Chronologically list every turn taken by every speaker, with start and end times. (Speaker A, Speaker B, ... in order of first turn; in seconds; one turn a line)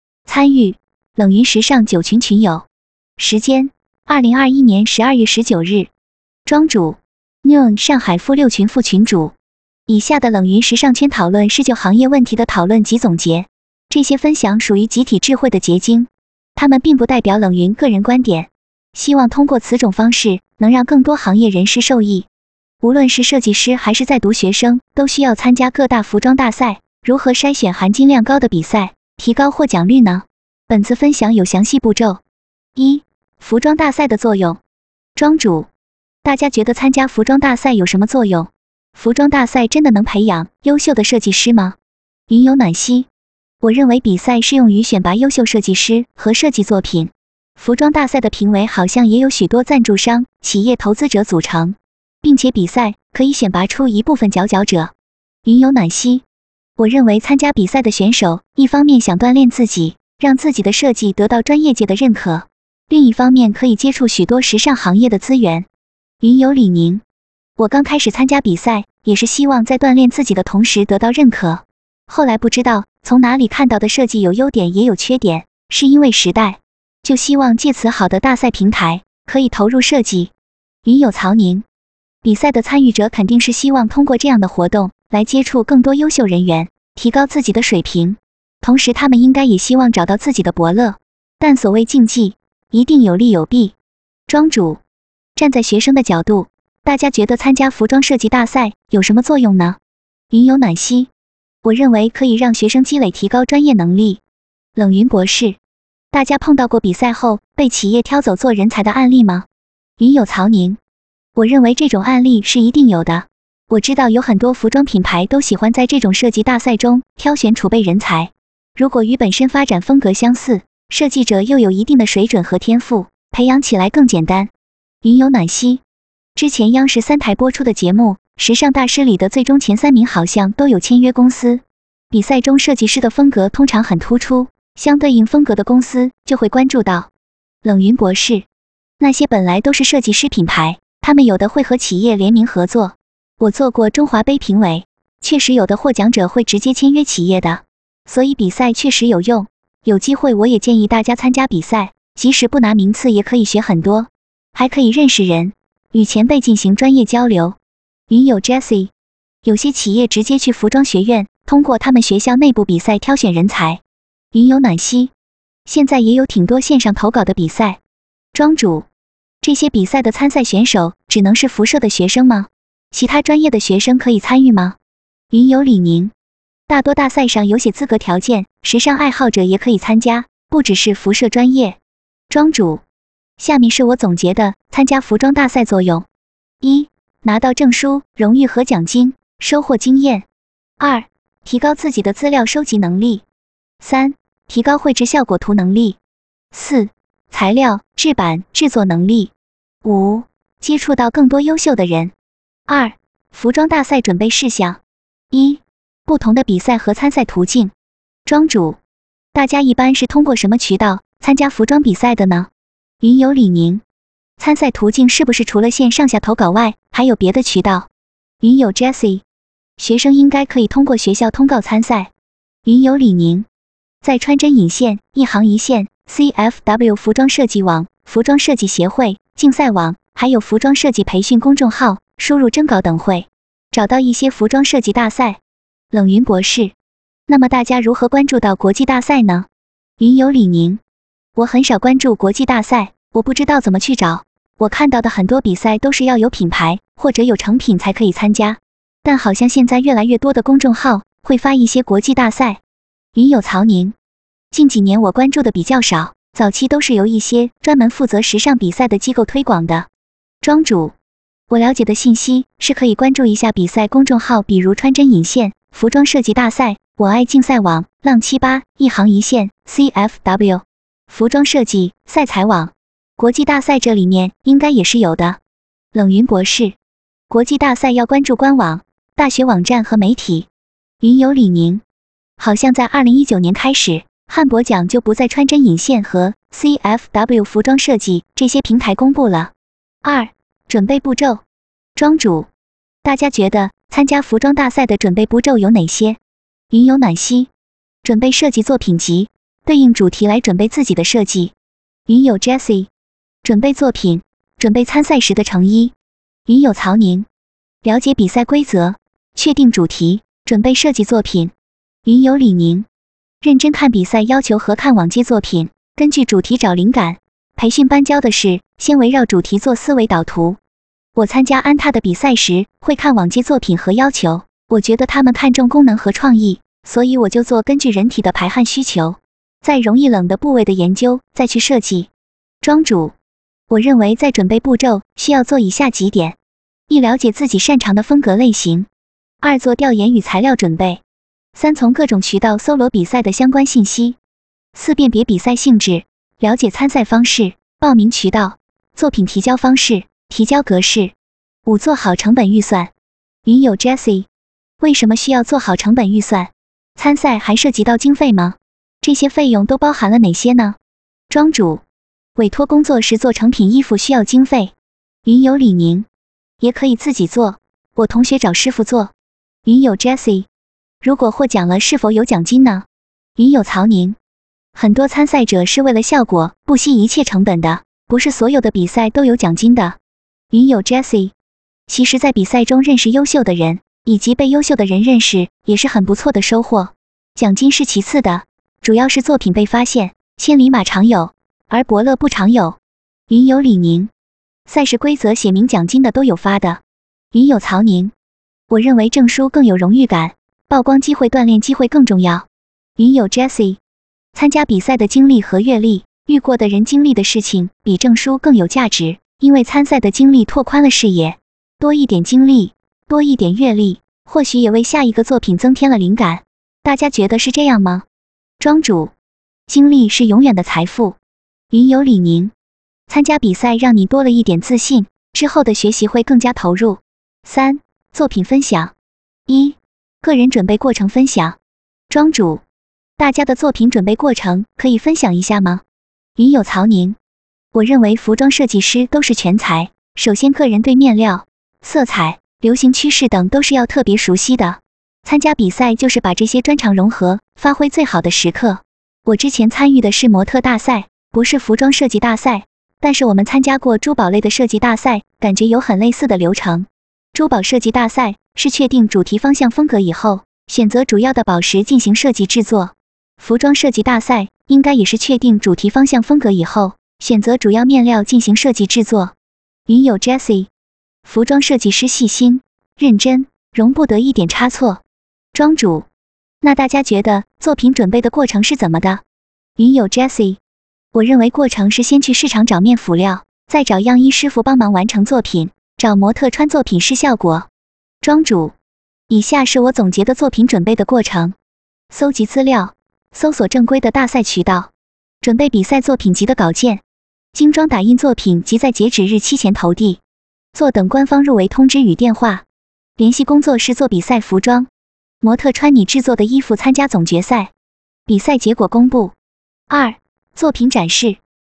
Speaker A: 0.2-5.9
Speaker A: 6.5-9.3
Speaker A: 9.9-22.3
Speaker A: 22.8-32.2
Speaker A: 32.8-34.6
Speaker A: 35.2-35.7
Speaker A: 36.2-41.8
Speaker A: 42.3-43.1
Speaker A: 43.6-54.9
Speaker A: 55.5-56.2
Speaker A: 56.8-65.7
Speaker A: 66.2-67.0
Speaker A: 67.6-80.3
Speaker A: 80.8-81.6
Speaker A: 82.2-93.8
Speaker A: 94.3-94.8
Speaker A: 95.4-99.8
Speaker A: 100.3-101.1
Speaker A: 101.6-104.2
Speaker A: 104.8-105.6
Speaker A: 106.1-109.5
Speaker A: 110.0-110.8
Speaker A: 111.3-124.5
Speaker A: 125.0-125.8
Speaker A: 126.3-137.1
Speaker A: 137.6-138.5
Speaker A: 139.0-157.6
Speaker A: 158.1-158.9
Speaker A: 159.4-163.8
Speaker A: 164.3-165.1
Speaker A: 165.7-167.8
Speaker A: 168.3-168.9
Speaker A: 169.4-174.8
Speaker A: 175.3-176.1
Speaker A: 176.7-181.8
Speaker A: 182.3-182.8
Speaker A: 183.4-186.1
Speaker A: 186.6-190.2
Speaker A: 190.8-193.2
Speaker A: 193.8-196.0
Speaker A: 196.5-199.3
Speaker A: 199.8-202.1
Speaker A: 202.7-204.8
Speaker A: 205.3-207.7
Speaker A: 208.2-208.8
Speaker A: 209.3-212.5
Speaker A: 213.0-213.8
Speaker A: 214.4-217.9
Speaker A: 218.4-219.2
Speaker A: 219.8-222.1
Speaker A: 222.7-223.5
Speaker A: 224.0-235.4
Speaker A: 235.9-236.8
Speaker A: 237.3-239.5
Speaker A: 240.0-240.8
Speaker A: 241.3-252.6
Speaker A: 253.2-253.9
Speaker A: 254.5-259.9
Speaker A: 260.4-260.9
Speaker A: 261.5-275.4
Speaker A: 275.9-276.8
Speaker A: 277.3-280.5
Speaker A: 281.0-281.8
Speaker A: 282.4-289.5
Speaker A: 290.0-291.4
Speaker A: 292.0-292.5
Speaker A: 293.0-296.2
Speaker A: 296.7-297.5
Speaker A: 298.0-301.5
Speaker A: 302.1-302.9
Speaker A: 303.4-305.9
Speaker A: 306.5-307.3
Speaker A: 307.8-311.5
Speaker A: 312.1-312.9
Speaker A: 313.4-320.6
Speaker A: 321.1-332.1
Speaker A: 332.6-333.1
Speaker A: 333.7-336.4
Speaker A: 336.9-338.9
Speaker A: 339.4-341.0
Speaker A: 341.6-344.2
Speaker A: 344.7-351.1
Speaker A: 351.6-352.9
Speaker A: 353.4-354.3
Speaker A: 354.8-360.8
Speaker A: 361.3-361.8
Speaker A: 362.4-364.7
Speaker A: 365.2-366.1
Speaker A: 366.6-369.1
Speaker A: 369.6-370.5
Speaker A: 371.0-374.2
Speaker A: 374.8-380.0
Speaker A: 380.5-381.3
Speaker A: 381.9-394.1
Speaker A: 394.7-396.8
Speaker A: 397.3-398.1
Speaker A: 398.7-403.8
Speaker A: 404.3-418.1
Speaker A: 418.6-419.1
Speaker A: 419.7-421.2
Speaker A: 421.7-422.5
Speaker A: 423.1-428.9
Speaker A: 429.5-431.6
Speaker A: 432.1-432.6
Speaker A: 433.2-435.8
Speaker A: 436.4-437.2
Speaker A: 437.7-469.4
Speaker A: 469.9-470.7
Speaker A: 471.2-475.0
Speaker A: 475.5-476.1
Speaker A: 476.6-479.2
Speaker A: 479.8-480.6
Speaker A: 481.1-487.7
Speaker A: 488.2-488.8
Speaker A: 489.3-491.6
Speaker A: 492.1-494.9
Speaker A: 495.4-497.0
Speaker A: 497.5-500.2
Speaker A: 500.7-502.6
Speaker A: 503.2-504.9
Speaker A: 505.4-507.7
Speaker A: 508.3-509.4
Speaker A: 509.9-511.4